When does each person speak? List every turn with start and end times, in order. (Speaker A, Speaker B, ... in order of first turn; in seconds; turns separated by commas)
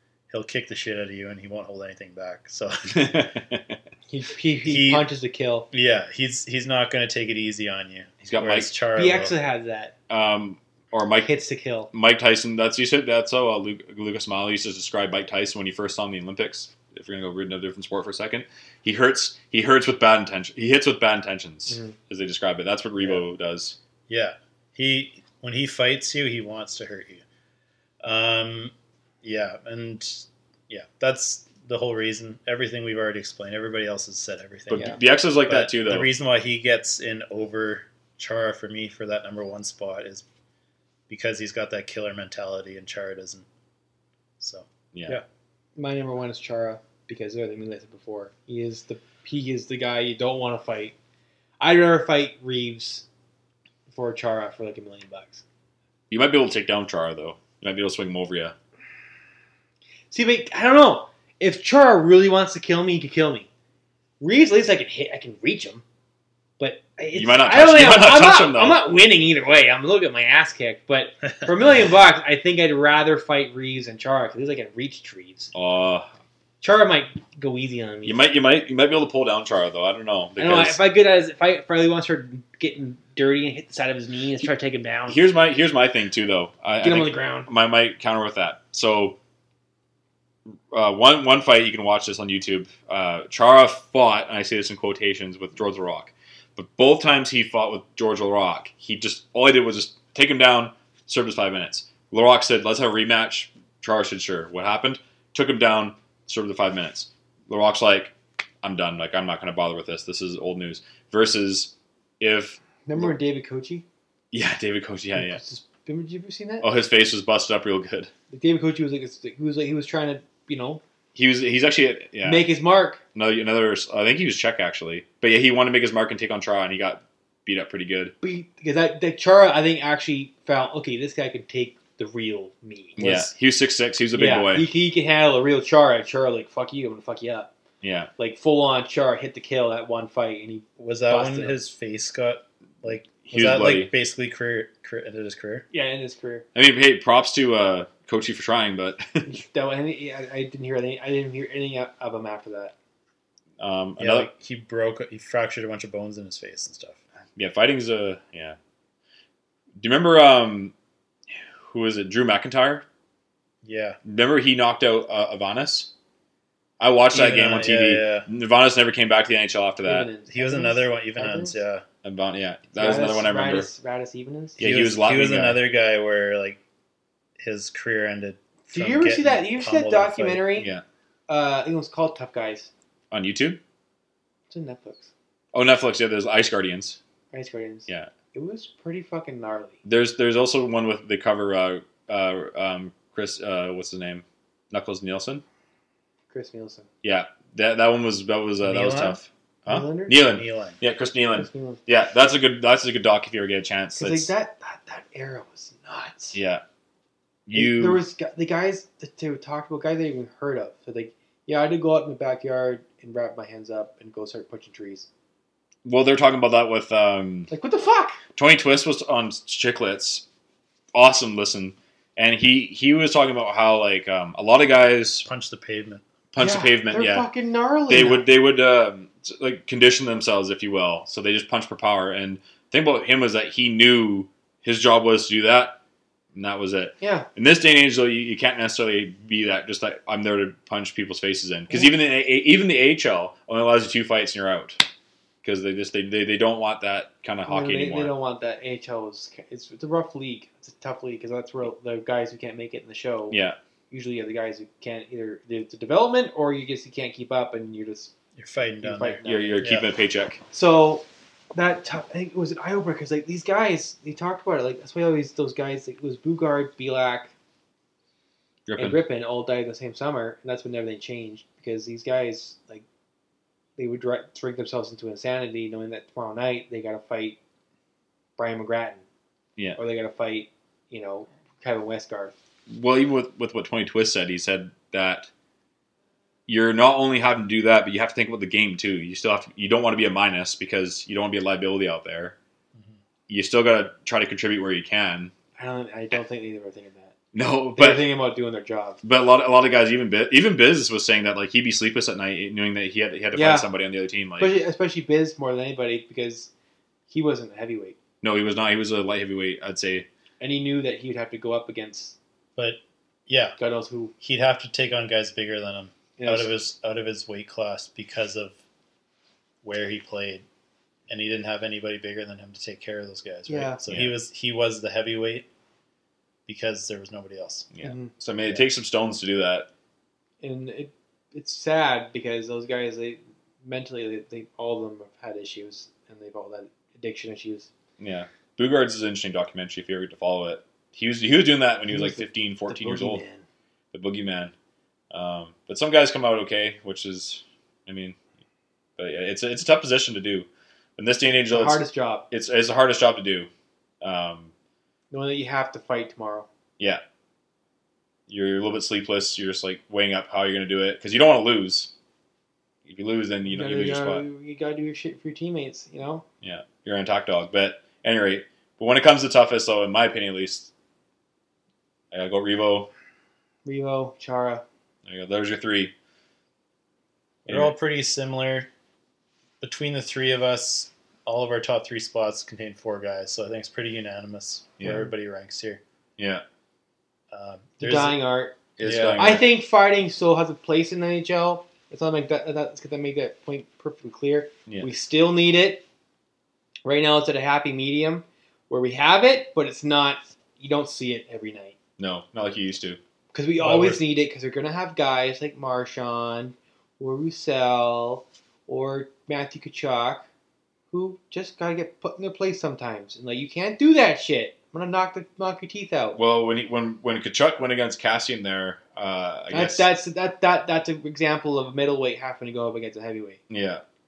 Speaker A: 0.3-3.3, Speaker B: 2.9-3.8, Speaker C: 4.1-5.7, Speaker A: 4.7-5.1, Speaker A: 5.7-9.3, Speaker B: 8.2-8.7, Speaker C: 8.9-9.9, Speaker B: 10.1-11.3, Speaker C: 11.2-11.9, Speaker B: 11.9-23.8, Speaker C: 21.7-21.9, Speaker A: 24.1-27.2, Speaker A: 28.0-40.2, Speaker B: 34.7-36.1, Speaker A: 41.1-43.5, Speaker A: 44.4-45.2, Speaker C: 45.8-50.9, Speaker C: 51.6-53.1, Speaker C: 53.9-55.4, Speaker B: 56.1-58.5, Speaker C: 60.1-63.5, Speaker C: 64.2-65.8, Speaker C: 66.6-75.5, Speaker B: 67.1-68.8, Speaker B: 75.5-76.1, Speaker C: 76.6-78.2, Speaker B: 78.0-80.8, Speaker C: 80.4-85.2, Speaker B: 85.1-89.2, Speaker C: 86.8-87.5, Speaker B: 90.7-113.1, Speaker C: 112.9-113.8, Speaker B: 114.3-115.4, Speaker C: 115.2-116.7, Speaker B: 116.6-118.1, Speaker C: 118.3-120.8, Speaker B: 121.1-122.4, Speaker C: 122.2-123.0, Speaker B: 123.1-128.1, Speaker C: 128.2-133.1, Speaker B: 133.0-134.7, Speaker A: 133.0-133.2, Speaker C: 134.1-137.5, Speaker B: 137.8-138.1, Speaker C: 138.2-141.6, Speaker A: 140.8-145.6, Speaker B: 143.2-143.9, Speaker C: 145.7-146.4, Speaker B: 146.6-149.3, Speaker C: 149.2-152.7, Speaker B: 153.6-154.3, Speaker A: 154.0-157.0, Speaker B: 157.4-158.6, Speaker B: 159.8-160.7, Speaker B: 161.3-162.8, Speaker A: 163.6-164.0, Speaker B: 164.1-165.9, Speaker B: 166.8-170.1, Speaker A: 167.1-168.3, Speaker C: 169.8-171.6, Speaker A: 170.3-171.8, Speaker B: 172.0-173.7, Speaker C: 172.8-174.6, Speaker B: 174.6-175.6, Speaker A: 174.6-176.6, Speaker A: 177.4-180.5, Speaker C: 178.7-180.7, Speaker B: 180.6-180.8, Speaker C: 181.3-182.7, Speaker B: 183.1-183.6, Speaker C: 184.5-185.1, Speaker B: 185.5-187.0, Speaker C: 187.3-189.8, Speaker B: 189.8-195.4, Speaker C: 196.3-196.9, Speaker B: 197.0-204.3, Speaker A: 198.6-199.2, Speaker C: 199.7-200.2, Speaker A: 200.2-200.8, Speaker C: 201.4-201.8, Speaker C: 204.0-206.4, Speaker B: 206.3-206.6, Speaker B: 207.5-208.0, Speaker C: 207.5-215.1, Speaker B: 215.8-217.5, Speaker C: 217.5-218.2, Speaker B: 218.3-220.2, Speaker B: 220.9-225.3, Speaker A: 225.2-226.1, Speaker B: 226.3-227.3, Speaker C: 226.4-228.2, Speaker B: 227.9-235.8, Speaker B: 236.3-244.8, Speaker C: 237.0-237.3, Speaker B: 245.4-248.1, Speaker C: 247.4-258.1, Speaker B: 253.3-253.6, Speaker A: 258.4-259.9, Speaker C: 258.8-259.6, Speaker B: 259.2-260.4, Speaker C: 260.5-267.3, Speaker B: 268.7-269.0, Speaker C: 268.8-272.9, Speaker C: 273.8-277.4, Speaker C: 278.4-279.1, Speaker C: 279.8-282.4, Speaker B: 282.7-285.3, Speaker B: 286.5-292.4, Speaker B: 293.3-295.3, Speaker C: 295.6-297.1, Speaker B: 297.3-298.1, Speaker C: 297.7-299.0, Speaker B: 299.0-304.5, Speaker C: 303.3-303.7, Speaker C: 304.4-306.5, Speaker C: 307.1-308.0, Speaker B: 308.2-310.1, Speaker C: 310.4-312.2, Speaker A: 312.6-313.6, Speaker C: 313.6-314.1, Speaker A: 314.2-318.6, Speaker C: 316.2-316.6, Speaker A: 319.6-320.4, Speaker A: 321.1-325.5, Speaker C: 323.5-323.8, Speaker B: 323.9-324.1, Speaker A: 326.5-327.7, Speaker B: 327.7-329.7, Speaker C: 327.8-328.1, Speaker C: 330.4-337.7, Speaker B: 338.0-343.2, Speaker C: 341.9-343.4, Speaker B: 343.9-344.5, Speaker B: 345.1-348.2, Speaker B: 349.0-353.5, Speaker C: 351.5-352.2, Speaker B: 354.0-354.5, Speaker C: 355.1-356.5, Speaker B: 358.3-361.9, Speaker B: 362.9-364.2, Speaker C: 363.4-366.2, Speaker B: 366.4-370.7, Speaker B: 372.1-372.9, Speaker C: 373.6-374.6, Speaker B: 375.1-375.9, Speaker A: 377.4-378.7, Speaker B: 377.5-377.7, Speaker A: 379.6-385.8, Speaker B: 384.8-385.1, Speaker B: 386.2-386.4, Speaker A: 387.3-388.2, Speaker C: 387.8-388.6, Speaker B: 388.8-389.4, Speaker A: 388.8-389.3, Speaker C: 389.2-395.8, Speaker C: 396.8-401.7, Speaker B: 402.0-403.0, Speaker C: 403.3-410.3, Speaker A: 403.6-404.0, Speaker C: 410.9-416.2, Speaker B: 416.1-419.9, Speaker C: 419.5-423.4, Speaker B: 423.5-423.8